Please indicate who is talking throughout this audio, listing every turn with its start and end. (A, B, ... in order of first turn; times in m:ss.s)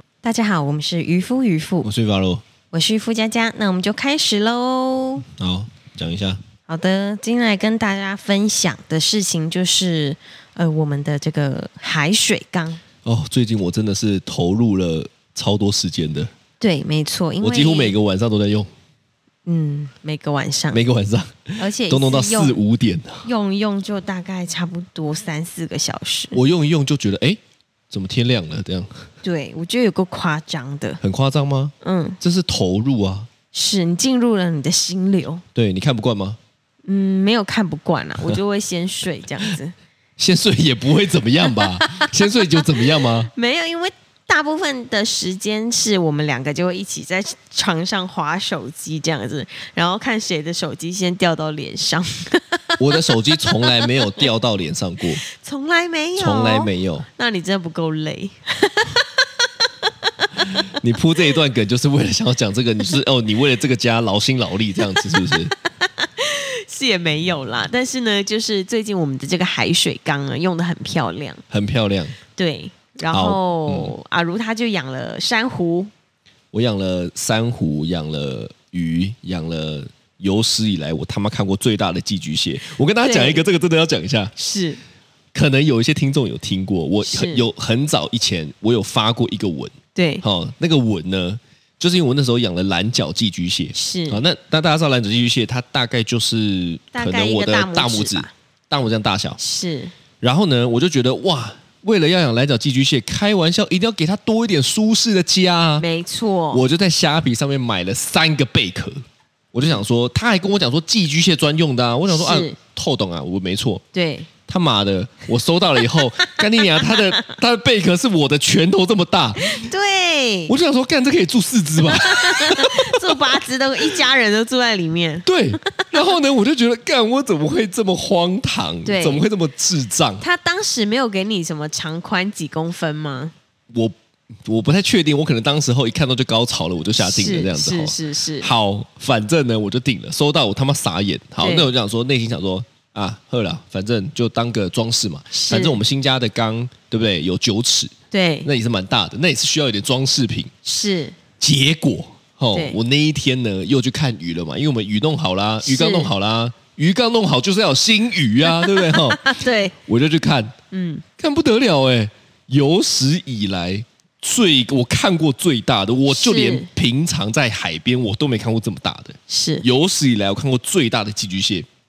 0:00.2-0:01.9 A
0:01.8-0:02.4 B
0:02.7-0:05.2 A
0:05.3-0:06.4 B
0:06.7-0:12.8 A
0:13.0-0:16.3 B
0:16.6-0:17.9 A
0:17.4-0:18.7 B
0:19.4-0:20.8 A
0:20.7-0:23.2 B
0:21.6-0:22.6 A
0:23.2-0:26.4 A
0:26.3-0:29.0 B
0:29.2-0:31.0 A
0:31.0-0:33.3 B
0:31.8-0:32.2 A
0:33.5-0:35.4 A
0:35.5-0:36.4 B
0:36.8-0:39.7 A
0:40.2-0:43.3 B
0:41.8-0:54.0 A
0:52.8-0:55.2 B
0:55.3-0:59.2 A
0:56.2-0:57.0 B
1:00.2-1:00.6 A
1:00.5-1:05.5 B
1:05.8-1:11.4 A
1:11.5-1:12.2 B
1:12.4-1:15.9 A
1:13.1-1:13.9 B
1:16.5-1:24.3 B
1:23.0-1:23.4 A
1:24.4-1:24.8 A
1:25.3-1:39.4 B
1:27.0-1:27.4 A
1:29.9-1:30.2 A
1:33.7-1:34.2 A
1:36.9-1:38.3 A
1:39.4-1:39.9 A
1:40.2-1:45.8 B
1:45.8-1:46.6 A
1:46.5-1:49.0 B
1:49.5-1:53.8 B
1:52.1-1:52.6 A
1:53.9-1:54.3 A
1:54.5-1:59.7 B
1:59.4-2:00.5 A
2:00.5-2:03.4 B
2:01.8-2:06.2 A
2:05.2-2:10.2 B
2:08.8-2:09.2 A
2:10.2-2:13.3 A
2:14.4-2:27.9 B
2:17.0-2:18.5 A
2:21.4-2:21.7 A
2:25.3-2:25.8 A
2:28.1-2:28.5 A
2:28.4-2:30.5 B
2:30.6-2:31.1 A
2:31.4-2:40.5 B
2:35.6-2:36.1 A
2:38.5-2:39.7 A
2:40.7-2:41.0 A
2:41.2-2:51.7 B
2:46.1-2:46.7 A
2:49.3-2:49.6 A